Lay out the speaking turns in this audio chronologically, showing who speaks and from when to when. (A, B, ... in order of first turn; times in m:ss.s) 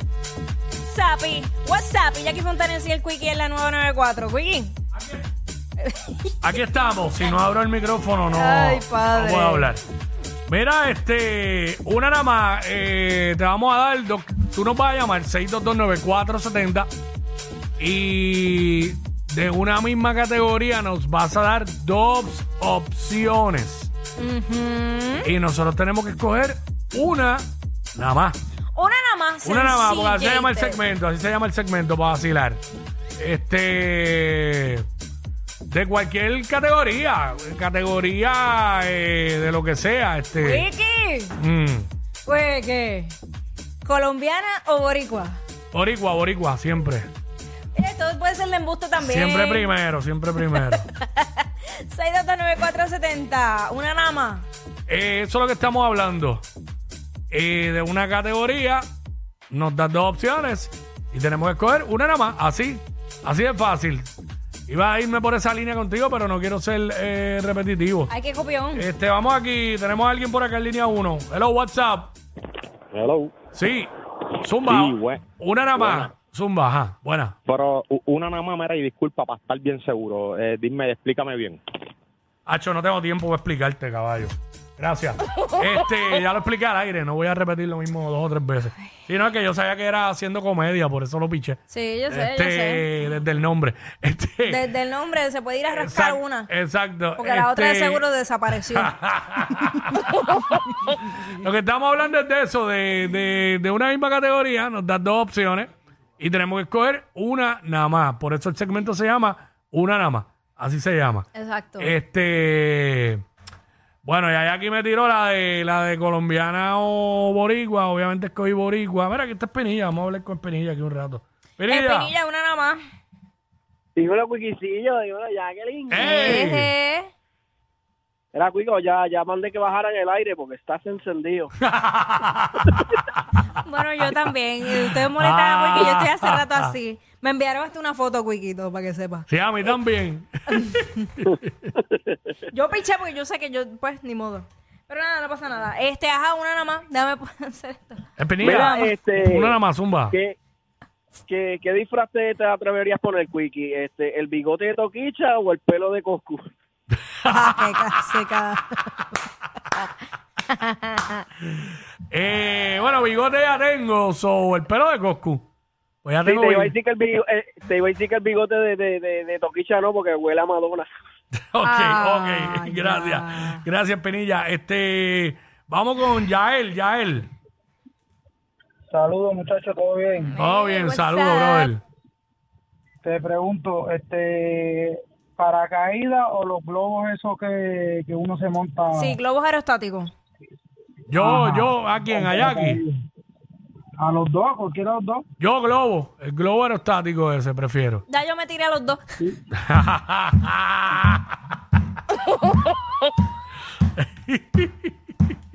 0:00.8-0:04.7 A
0:05.8-0:06.3 A
0:06.4-0:09.8 B
0:08.3-0:09.7 A
0:10.5-0:16.9 B
0:17.8-0:23.9 B
0:24.2-0:25.3 A
0:25.2-0:28.4 B
0:28.7-0:30.8 A
0:29.4-0:32.6 B
0:33.2-0:34.8 B
0:35.7-0:40.6 B
0:40.4-0:41.4 A
0:41.4-0:41.9 B
0:42.2-0:43.1 A
0:43.8-0:45.4 A
0:45.7-0:47.1 B
0:47.7-0:49.7 A
0:49.0-0:50.9 B
0:50.5-0:54.4 A
0:54.9-0:56.4 B
0:57.3-0:58.8 B
0:59.5-1:04.1 B
1:04.7-1:08.1 B
1:08.1-1:08.8 A
1:08.7-1:12.1 B
1:12.9-1:13.3 C
1:13.5-1:17.4 B
1:14.6-1:15.2 C
1:15.7-1:16.1 C
1:17.4-1:21.6 C
1:22.4-1:34.7 B
1:31.7-1:32.8 A
1:34.5-1:36.5 A
1:35.7-1:38.1 B
1:37.2-1:38.9 A
1:38.7-1:40.0 B
1:41.3-1:51.2 B
1:51.3-1:51.9 A
1:51.8-1:53.2 B
1:54.0-2:02.1 B
2:01.7-2:02.8 A
2:04.0-2:06.4 D
2:05.9-2:06.7 B
2:06.0-2:07.1 A
2:08.3-2:11.5 D
2:11.6-2:13.2 B
2:13.6-2:19.3 A
2:14.8-2:16.7 B
2:19.3-2:21.7 B
2:20.5-2:21.0 A
2:22.5-2:28.9 A
2:28.2-2:30.2 B
2:28.4-2:29.5 D
2:30.1-2:30.4 D
2:31.3-2:36.5 D
2:37.2-2:37.5 B
2:37.2-2:38.9 A
2:40.5-2:41.2 A
2:42.1-2:45.4 B
2:46.0-2:46.7 B
2:46.2-2:50.9 D
2:51.3-2:57.3 B
2:51.6-2:53.6 A
2:58.9-3:00.3 E
3:00.2-3:01.7 A
3:00.4-3:01.8 B
3:03.0-3:09.2 E
3:08.9-3:10.1 A
3:11.1-3:12.8 B
3:11.1-3:12.9 E
3:14.0-3:15.2 E
3:15.4-3:18.0 B
3:18.1-3:19.0 A
3:19.5-3:21.4 B
3:23.9-3:24.9 B